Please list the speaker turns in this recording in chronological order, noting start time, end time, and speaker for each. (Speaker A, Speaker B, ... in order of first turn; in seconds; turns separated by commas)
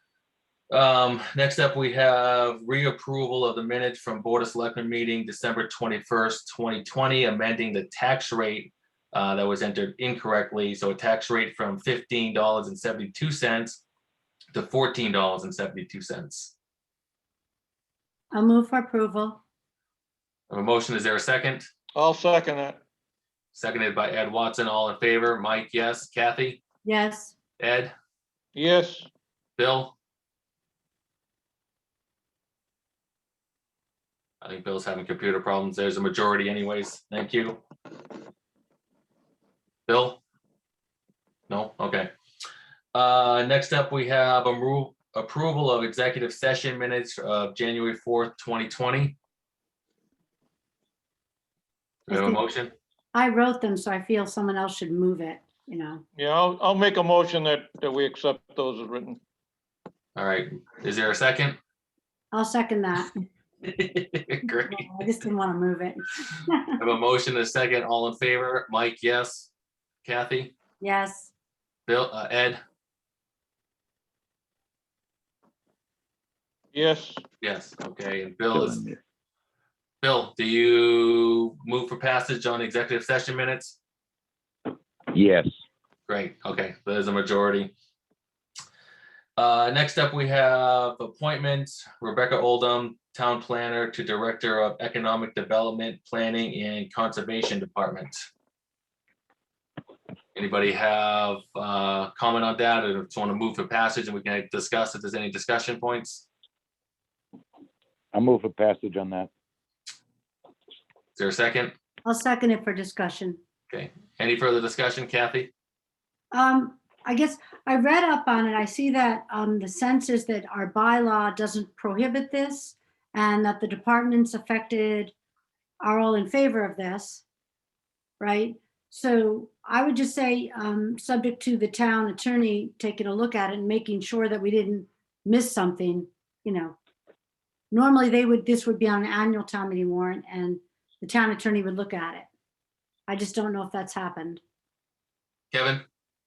Speaker A: 0.7-13.8, Speaker A: 14.5-16.5, Speaker B: 18.3-19.4, Speaker A: 20.5-21.6, Speaker C: 21.9-22.8, Speaker A: 23.5-26.6, Speaker B: 26.8-27.4, Speaker A: 27.6-27.9, Speaker C: 28.5-29.1, Speaker A: 29.6-29.9, Speaker A: 34.4-37.6, Speaker A: 39.9-40.2, Speaker A: 41.5-42.1, Speaker A: 42.9-49.2, Speaker A: 52.1-52.7, Speaker B: 52.1-52.4, Speaker B: 53.1-56.0, Speaker C: 56.1-59.2, Speaker A: 60.1-61.6, Speaker B: 62.3-63.1, Speaker A: 63.6-64.9, Speaker B: 64.7-66.6, Speaker A: 66.8-69.5, Speaker A: 70.0-70.5, Speaker B: 70.8-71.3, Speaker A: 71.9-72.6, Speaker C: 76.7-77.2, Speaker A: 77.4-78.8, Speaker D: 78.5-79.0, Speaker A: 80.0-83.8, Speaker D: 85.1-85.5, Speaker A: 86.1-87.7, Speaker A: 89.4-98.2, Speaker A: 100.3-106.3, Speaker D: 108.1-109.3, Speaker A: 111.1-111.7, Speaker B: 112.0-113.4, Speaker A: 113.7-115.5, Speaker B: 116.3-125.1, Speaker B: 125.8-127.2, Speaker B: 128.2-136.8, Speaker B: 137.7-142.3, Speaker B: 143.1-144.4, Speaker A: 145.5-145.8